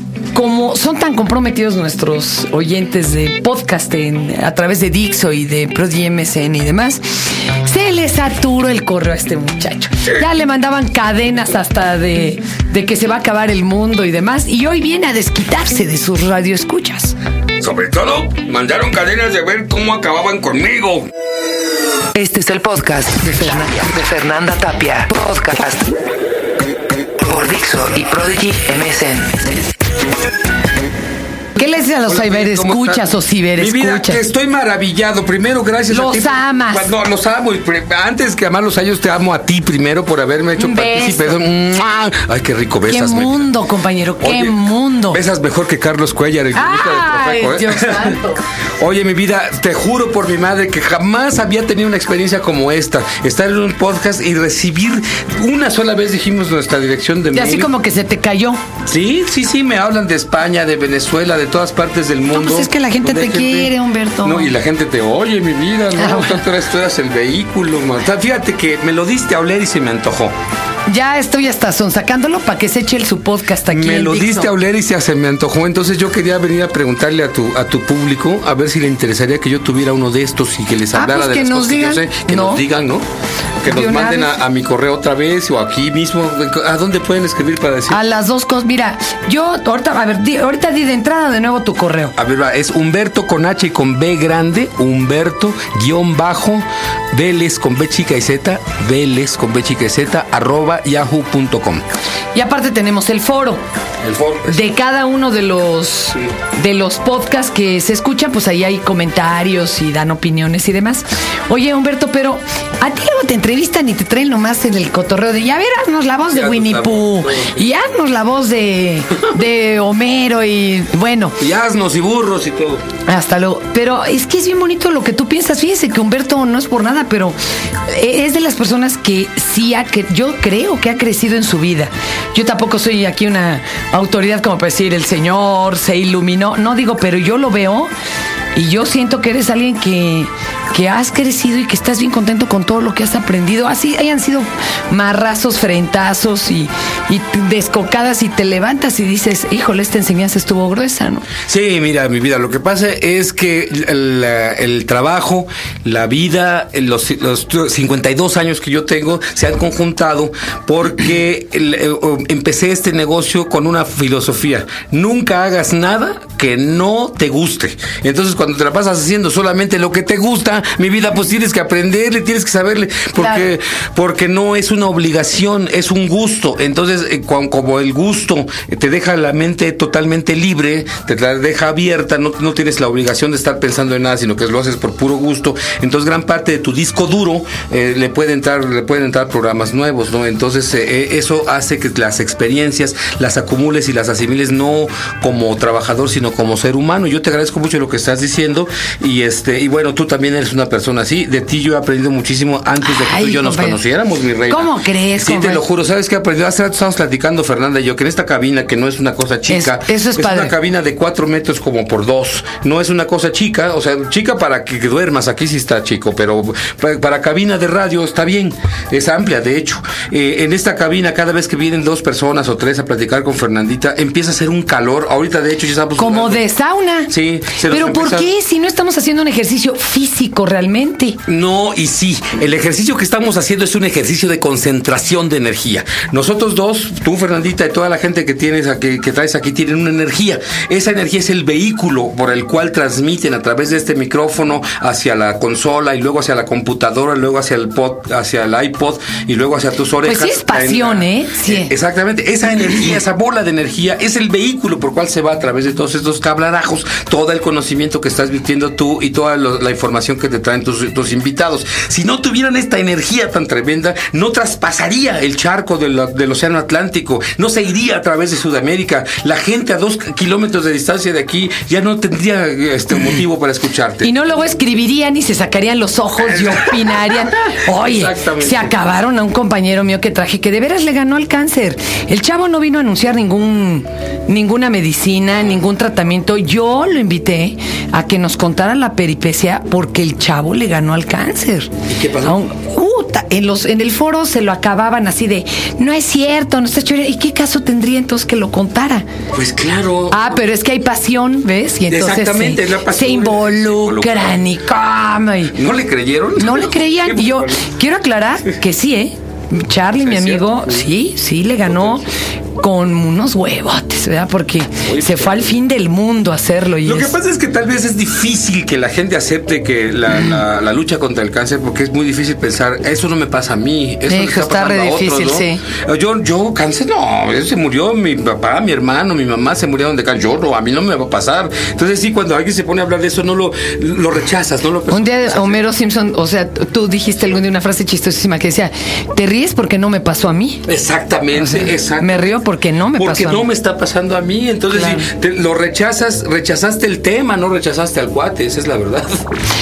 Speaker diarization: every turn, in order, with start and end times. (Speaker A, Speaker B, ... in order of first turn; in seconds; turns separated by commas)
Speaker A: 0.3-7.0, Speaker A: 7.6-17.2, Speaker B: 17.6-21.1, Speaker C: 22.2-25.9, Speaker A: 22.9-23.7, Speaker C: 27.3-29.6, Speaker A: 31.6-34.2, Speaker B: 32.0-43.5, Speaker A: 35.9-36.9, Speaker A: 40.6-41.4, Speaker A: 42.9-45.2, Speaker B: 44.2-48.2, Speaker A: 46.5-48.4, Speaker B: 48.8-57.7, Speaker A: 57.3-58.6, Speaker B: 58.9-63.7, Speaker A: 62.3-64.5, Speaker B: 64.2-70.3, Speaker A: 66.0-66.4, Speaker A: 70.9-74.5, Speaker B: 73.7-83.0, Speaker A: 80.9-82.6, Speaker B: 83.6-88.0, Speaker A: 83.7-84.3, Speaker A: 87.9-92.1, Speaker B: 92.2-101.9, Speaker A: 102.3-103.6, Speaker B: 104.0-104.6, Speaker A: 104.5-121.4, Speaker B: 116.3-117.7, Speaker B: 121.4-122.8, Speaker A: 123.0-137.9, Speaker A: 138.6-151.3, Speaker B: 151.5-226.5, Speaker A: 202.8-203.8, Speaker A: 204.5-205.6, Speaker A: 209.5-210.5, Speaker A: 226.0-227.1, Speaker B: 227.1-228.3, Speaker A: 227.7-231.2, Speaker B: 231.3-274.1, Speaker A: 250.0-251.7, Speaker A: 274.0-291.7, Speaker B: 276.2-278.7, Speaker B: 291.9-292.5, Speaker A: 292.2-299.1, Speaker B: 299.3-300.3, Speaker A: 300.1-305.6, Speaker B: 301.9-304.4, Speaker B: 305.5-307.7, Speaker A: 306.4-312.1, Speaker B: 310.0-310.9, Speaker A: 312.6-317.1, Speaker B: 314.8-315.6, Speaker B: 316.8-335.6, Speaker A: 324.1-325.6, Speaker A: 334.9-340.6, Speaker B: 340.6-342.4, Speaker A: 341.3-343.4, Speaker B: 342.9-349.2, Speaker A: 344.7-345.1